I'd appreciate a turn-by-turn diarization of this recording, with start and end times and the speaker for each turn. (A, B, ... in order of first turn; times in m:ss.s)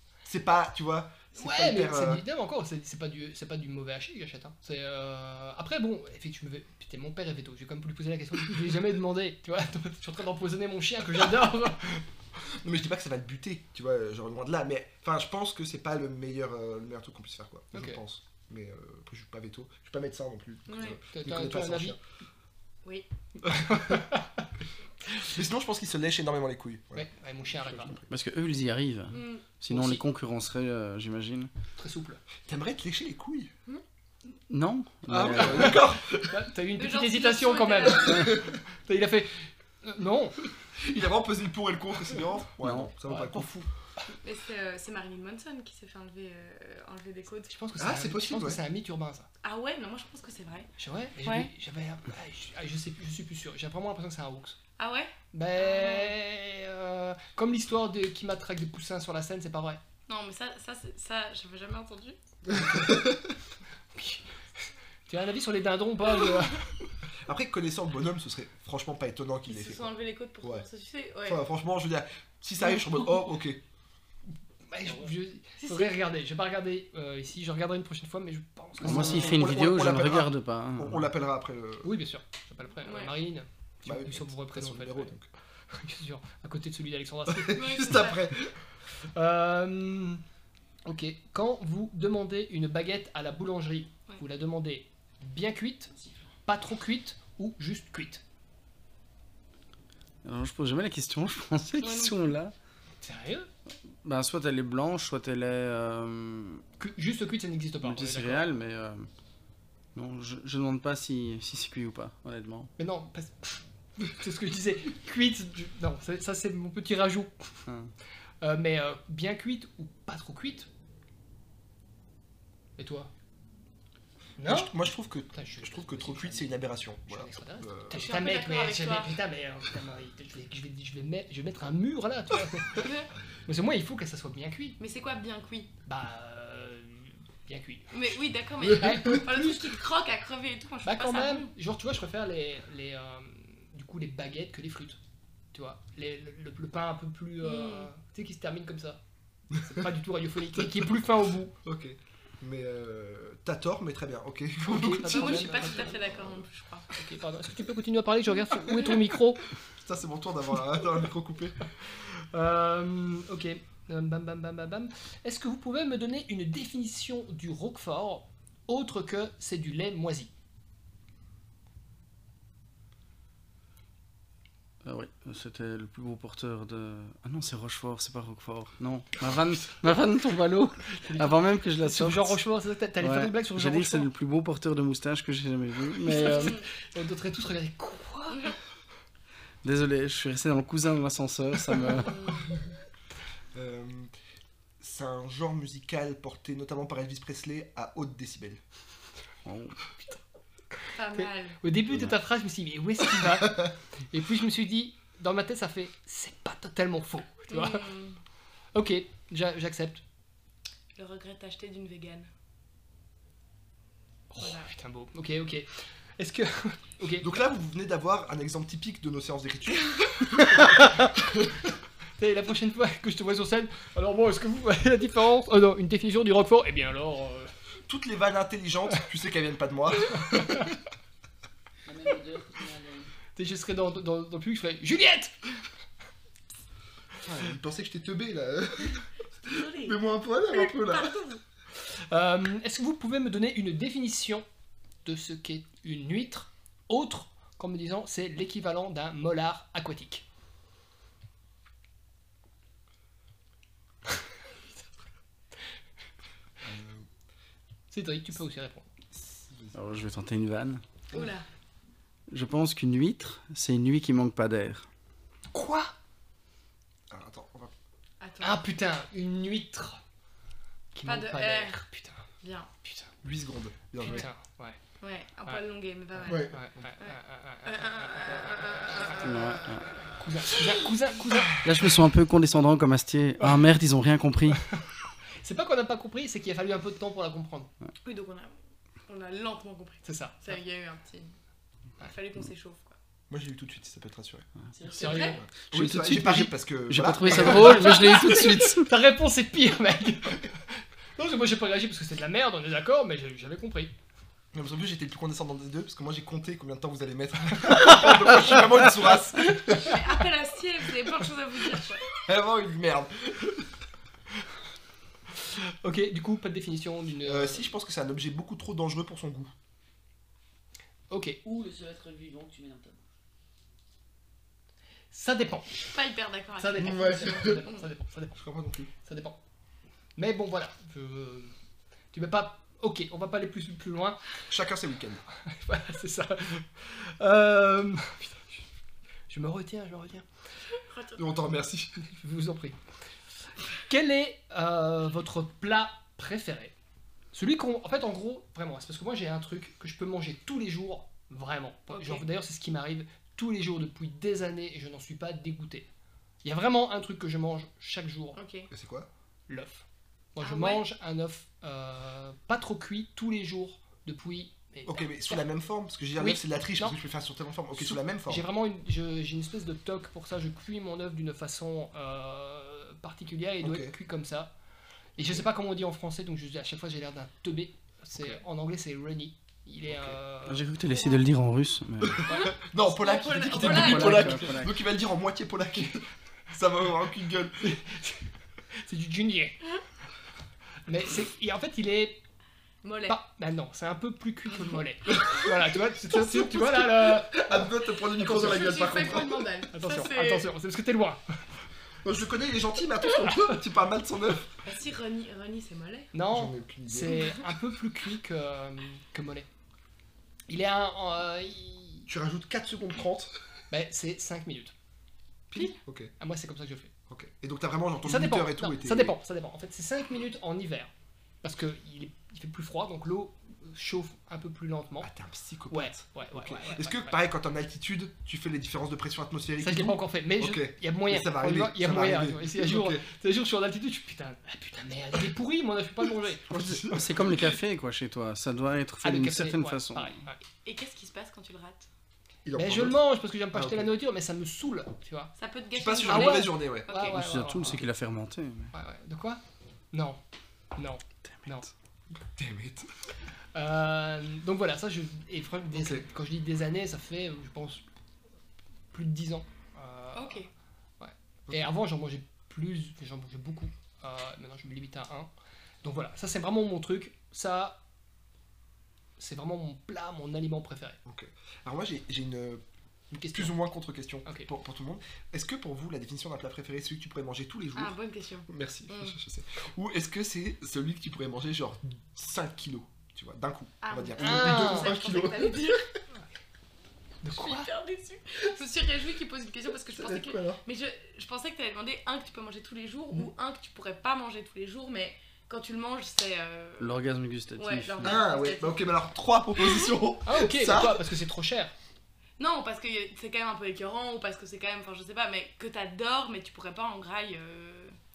0:00.2-0:02.2 A
0:01.4-0:12.0 B
0:12.5-0:22.0 A
0:17.7-0:18.0 B
0:20.7-0:21.0 C
0:21.1-0:22.0 B
0:23.5-0:24.2 B
0:25.3-0:28.1 A
0:27.0-0:27.9 B
0:28.1-0:31.5 D
0:29.1-0:29.5 C
0:29.7-0:30.0 B
0:31.8-0:32.2 B
0:32.5-0:33.5 A
0:34.5-0:35.9 D
0:35.1-0:36.3 A
0:35.2-0:40.4 B
0:36.8-0:38.3 C
0:40.8-0:43.5 A
0:42.6-0:42.9 D
0:43.1-0:43.6 B
0:44.2-0:47.5 C
0:47.5-0:49.3 B
0:47.8-0:48.6 A
0:49.4-0:50.7 C
0:50.8-0:54.6 B
0:51.2-0:51.5 C
0:54.8-0:56.2 C
0:55.3-0:59.8 B
1:00.1-1:02.2 C
1:02.5-1:03.1 A
1:04.0-1:04.2 B
1:05.1-1:06.8 B
1:07.3-1:10.6 A
1:09.5-1:11.4 C
1:11.2-1:13.6 A
1:14.7-1:19.4 B
1:15.6-1:15.9 C
1:18.8-1:21.0 D
1:18.9-1:21.9 A
1:21.8-1:25.2 B
1:22.8-1:23.2 C
1:23.8-1:25.3 A
1:25.7-1:27.9 B
1:27.3-1:28.5 A
1:27.5-1:28.2 C
1:29.1-1:30.2 B
1:30.9-1:35.9 B
1:35.9-1:36.3 E
1:36.5-1:38.2 B
1:40.2-1:42.5 D
1:41.8-1:42.3 C
1:43.0-1:43.5 B
1:44.0-1:46.6 D
1:46.8-1:48.5 B
1:47.8-1:49.1 D
1:50.0-1:52.7 D
1:52.8-1:57.5 B
1:58.4-2:00.7 B
2:02.8-2:03.1 B
2:04.4-2:04.7 B
2:04.4-2:08.1 A
2:05.3-2:12.9 B
2:07.9-2:09.1 C
2:12.8-2:13.1 C
2:13.5-2:14.8 B
2:14.8-2:15.7 C
2:15.9-2:17.9 B
2:17.9-2:21.5 C
2:18.7-2:19.7 B
2:20.8-2:25.0 B
2:25.5-2:29.0 B
2:27.4-2:27.9 C
2:29.6-2:31.6 B
2:30.5-2:31.0 A
2:31.6-2:36.4 A
2:34.6-2:36.0 B
2:35.0-2:36.9 C
2:37.0-2:39.5 B
2:39.8-2:41.6 A
2:42.0-2:50.3 B
2:54.8-3:02.4 D
3:01.0-3:04.1 B
3:03.0-3:06.6 D
3:06.0-3:08.6 B
3:06.2-3:06.6 C
3:09.6-3:12.2 D
3:11.8-3:12.6 C
3:13.5-3:14.1 A
3:14.8-3:18.6 A
3:19.4-3:19.8 D
3:20.9-3:21.6 C
3:21.2-3:27.9 B
3:27.5-3:28.2 C
3:28.7-3:30.0 B
3:31.0-3:32.3 C
3:34.3-3:37.3 B
3:34.4-3:34.7 C
3:37.2-3:40.8 A
3:42.2-3:47.5 B
3:47.9-3:50.7 A
3:51.8-3:53.1 E
3:53.4-3:55.3 B
3:57.2-4:01.2 A
3:59.5-4:00.0 C
4:00.5-4:01.4 C
4:01.9-4:04.4 B
4:05.0-4:10.2 B
4:16.6-4:17.1 A
4:17.9-4:18.9 B
4:19.1-4:19.8 A
4:19.7-4:20.8 D
4:21.1-4:21.5 C
4:22.3-4:24.9 D
4:25.5-4:25.9 B
4:27.1-4:27.7 A
4:28.2-4:28.6 C
4:28.4-4:30.0 B
4:31.0-4:32.2 B
4:31.0-4:31.8 C
4:32.4-4:32.7 C
4:32.8-4:33.1 B
4:33.2-4:34.3 A
4:34.0-4:34.8 B
4:35.0-4:40.0 C
4:36.2-4:36.6 A
4:36.3-4:39.2 B
4:39.2-4:39.9 D
4:40.2-4:41.6 B
4:41.6-4:44.6 D
4:45.4-4:47.7 B
4:48.0-4:51.4 C
4:50.0-4:50.4 B
4:52.1-4:53.0 C
4:53.3-4:54.5 A
4:54.7-4:55.4 E
4:54.9-4:55.4 B
4:55.0-4:55.4 C
4:55.4-4:58.1 A
4:55.6-4:58.9 D
4:57.3-5:00.5 B
5:01.2-5:03.9 B
5:04.5-5:10.0 A
5:09.7-5:12.1 C
5:12.2-5:13.7 A
5:15.8-5:17.7 B
5:17.2-5:19.5 A
5:21.1-5:21.4 B
5:21.4-5:23.0 E
5:25.1-5:25.8 B
5:25.8-5:27.8 C
5:26.6-5:28.4 B
5:26.8-5:27.7 A
5:28.4-5:28.9 A
5:29.0-5:29.4 B
5:30.2-5:31.5 B
5:32.1-5:34.2 B
5:34.5-5:35.2 A
5:35.5-5:38.5 B
5:39.3-5:40.2 B
5:40.9-5:41.3 C
5:41.2-5:42.0 A
5:42.1-5:42.8 B
5:43.9-5:46.7 B
5:47.3-5:55.9 B
5:51.9-5:52.3 C
5:56.4-5:58.4 B
5:58.4-5:58.7 C
5:58.7-5:59.1 A
5:59.5-6:05.0 B
6:00.4-6:00.9 C
6:04.8-6:08.5 A
6:06.2-6:07.0 B
6:07.8-6:14.5 B
6:13.6-6:14.0 A
6:15.2-6:20.7 B
6:19.9-6:20.2 A
6:20.5-6:22.2 D
6:22.0-6:27.7 A
6:22.3-6:24.5 C
6:23.5-6:24.7 D
6:27.6-6:28.3 B
6:28.8-6:29.6 B
6:30.9-6:32.2 B
6:32.8-6:33.2 C
6:33.1-6:37.7 B
6:35.1-6:39.6 A
6:38.2-6:38.9 B
6:38.2-6:40.5 C
6:39.7-6:41.2 B
6:42.0-6:44.6 A
6:44.6-6:46.1 C
6:46.1-6:49.5 B
6:46.3-6:47.4 A
6:50.5-6:52.1 B
6:52.1-6:53.3 A
6:53.7-6:54.7 B
6:55.5-6:56.1 A
6:56.2-6:56.9 B
6:57.1-6:59.2 A
6:58.0-7:00.9 B
7:01.4-7:05.1 B
7:05.0-7:13.0 A
7:05.7-7:07.2 B
7:09.6-7:16.8 B
7:16.5-7:17.4 A
7:16.8-7:20.2 D
7:19.0-7:20.4 B
7:20.6-7:21.9 C
7:22.4-7:23.0 A
7:22.6-7:25.3 B
7:23.5-7:23.9 A
7:25.4-7:27.2 C
7:25.8-7:26.9 A
7:26.1-7:27.8 B
7:27.0-7:28.7 D
7:28.7-7:29.4 B
7:29.9-7:30.2 B
7:30.8-7:31.7 B
7:32.2-7:32.9 A
7:33.5-7:37.8 B
7:35.7-7:36.0 A
7:38.9-7:40.5 B
7:40.1-7:40.5 C
7:41.0-7:45.3 B
7:45.8-7:47.8 B
7:49.2-7:51.0 B
7:51.0-7:58.0 A
7:53.2-7:53.6 B
7:57.8-7:59.2 C
7:58.5-8:05.8 A
8:03.8-8:05.9 C
8:04.2-8:04.9 B
8:07.2-8:07.7 B
8:07.3-8:17.0 C
8:09.9-8:10.6 A
8:16.8-8:18.2 D
8:17.6-8:18.9 C
8:18.0-8:21.1 A
8:19.6-8:19.9 C
8:20.2-8:21.7 B
8:22.4-8:28.0 C